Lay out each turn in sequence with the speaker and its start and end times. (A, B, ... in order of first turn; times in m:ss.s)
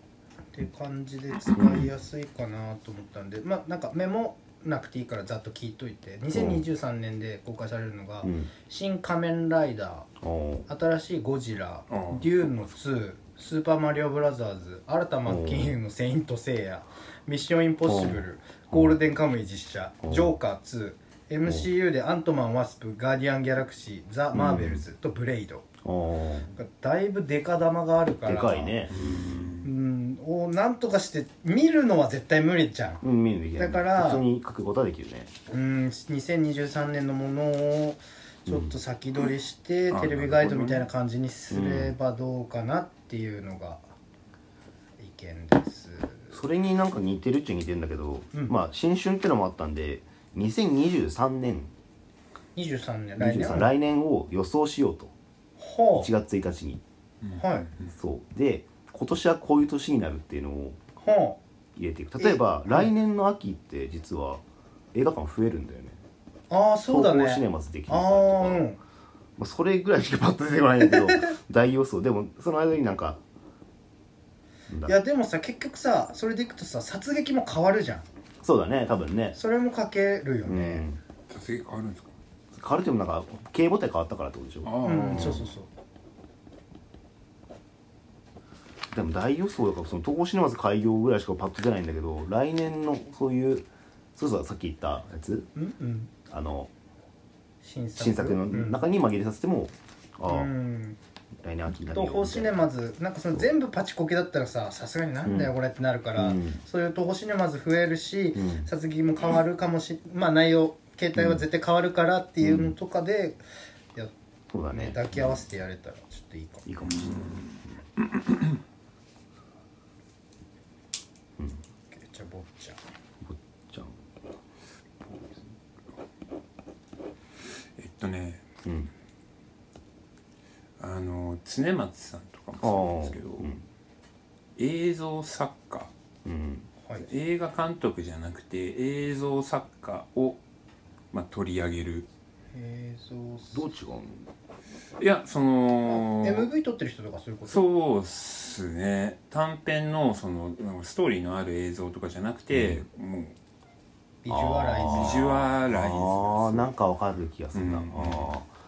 0:00.5-0:10.1 A
0:01.6-0:01.8 B
0:06.3-0:06.6 B
0:08.2-0:08.5 B
0:10.2-0:10.7 B
0:10.7-0:25.7 A
0:11.9-0:12.4 C
0:15.2-0:15.7 B
0:17.8-0:19.0 B
0:20.0-0:20.3 B
0:24.3-0:24.8 B
0:25.8-0:26.5 B
0:26.6-0:29.0 A
0:28.2-0:29.6 B
0:28.9-0:29.7 C
0:29.6-0:33.0 A
0:33.0-0:35.3 B
0:33.6-0:34.2 A
0:35.5-0:43.9 A
0:38.5-0:38.7 B
0:39.9-0:40.9 C
0:41.5-0:41.9 B
0:45.0-0:46.3 A
0:46.3-0:51.7 B
0:52.5-0:53.7 A
0:53.2-0:55.1 B
0:55.6-0:56.1 A
0:55.9-0:56.8 B
0:57.2-0:57.9 C
0:57.4-0:57.7 A
0:57.9-1:00.8 B
1:01.0-1:01.4 A
1:01.8-1:04.4 B
1:02.2-1:02.9 A
1:04.9-1:06.0 B
1:06.5-1:08.8 A
1:06.9-1:08.7 B
1:09.4-1:13.2 B
1:10.8-1:11.3 A
1:14.7-1:15.0 B
1:14.8-1:18.0 A
1:18.4-1:19.4 B
1:19.3-1:20.8 A
1:20.4-1:21.0 B
1:21.3-1:22.1 C
1:22.5-1:25.4 B
1:24.6-1:25.5 C
1:24.8-1:25.7 A
1:28.9-1:35.5 B
1:35.5-1:36.1 A
1:36.2-1:36.7 B
1:37.6-1:38.8 A
1:38.0-1:40.5 B
1:40.2-1:41.0 A
1:41.4-1:42.6 B
1:41.9-1:53.4 A
1:45.2-1:45.5 B
1:46.2-1:46.6 B
1:48.3-1:48.7 B
1:51.2-1:51.4 B
1:52.4-1:52.7 B
1:54.5-1:55.4 B
1:54.7-1:56.6 A
1:56.6-1:57.8 B
1:56.8-1:57.6 C
1:58.1-1:58.5 C
2:01.4-2:01.6 B
2:01.9-2:02.8 A
2:03.2-2:04.0 B
2:07.8-2:08.4 C
2:08.6-2:08.9 B
2:10.8-2:13.5 C
2:12.6-2:13.6 B
2:14.6-2:15.9 C
2:16.2-2:16.7 B
2:16.8-2:17.1 A
2:17.0-2:20.4 C
2:21.1-2:22.1 C
2:22.5-2:23.7 A
2:23.5-2:24.3 B
2:25.0-2:26.5 C
2:25.8-2:27.6 A
2:27.5-2:33.4 C
2:32.5-2:32.8 B
2:34.2-2:35.3 A
2:34.3-2:38.5 B
2:34.7-2:36.7 C
2:37.5-2:38.3 C